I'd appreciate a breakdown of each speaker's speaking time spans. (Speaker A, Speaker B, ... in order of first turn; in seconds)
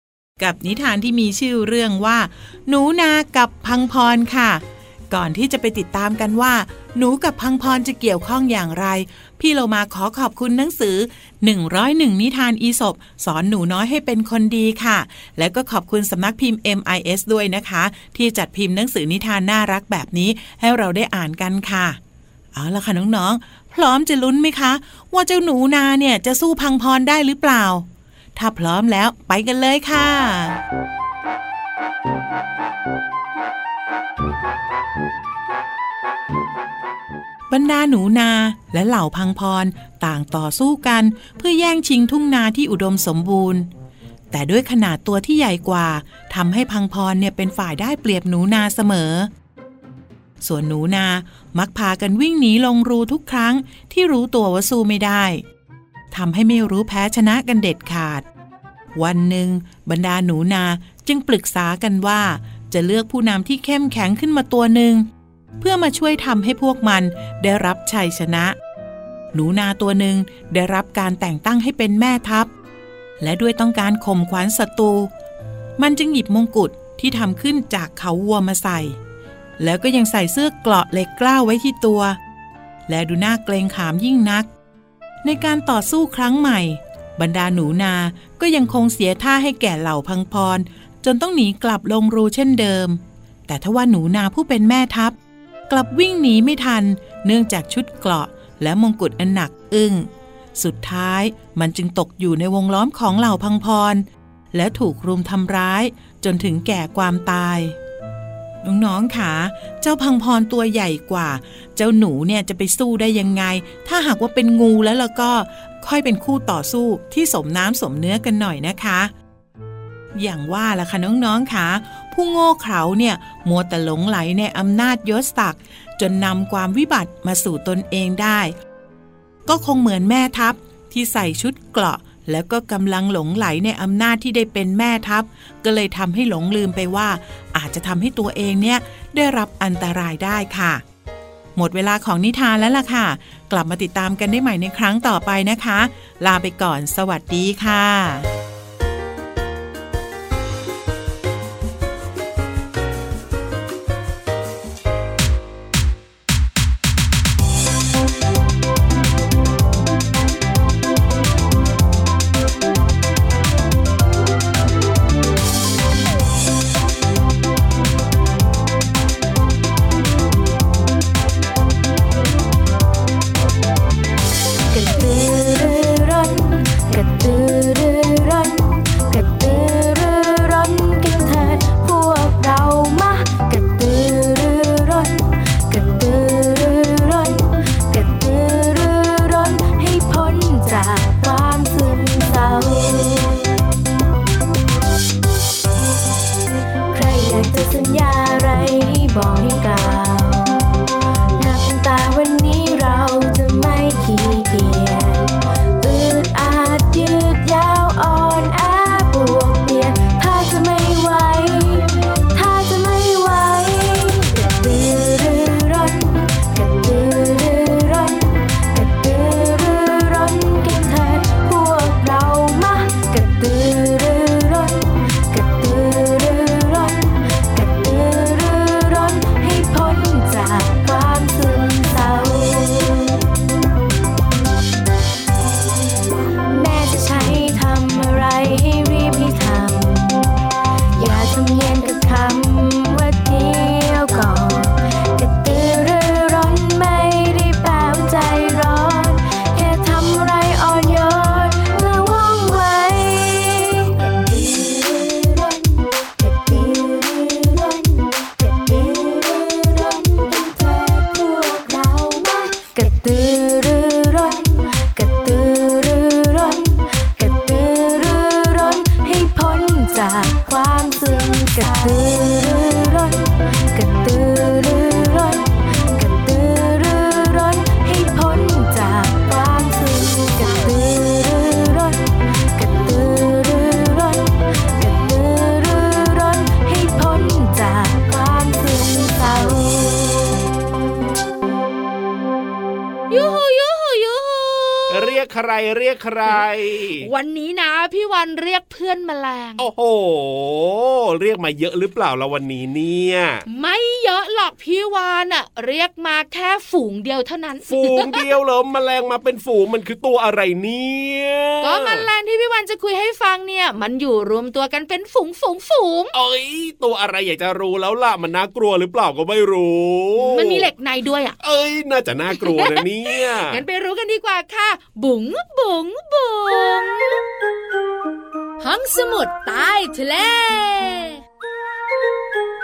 Speaker A: 0.4-22.0, 22.5-30.6, 37.5-43.7, 44.3-49.3, 50.4-55.4, 56.1-58.2, 58.9-68.6, 69.3-72.5, 73.2-75.1, 75.8-79.0, 79.6-82.2, 82.9-84.5, 85.2-95.2, 95.7-107.8, 108.6-119.1, 120.1-128.6, 129.5-140.8, 141.6-148.3
Speaker B: 174.7-193.4, 196.9-200.8, 201.4-233.2, 236.5-240.4, 240.9-290.4
Speaker C: 293.1-295.2, 297.0-299.6, 303.5-308.2, 311.6-316.1, 320.2-321.4, 322.4-327.2, 328.6-331.2
Speaker D: 294.9-297.1, 299.6-303.4, 307.7-312.1, 316.1-320.7, 321.4-323.6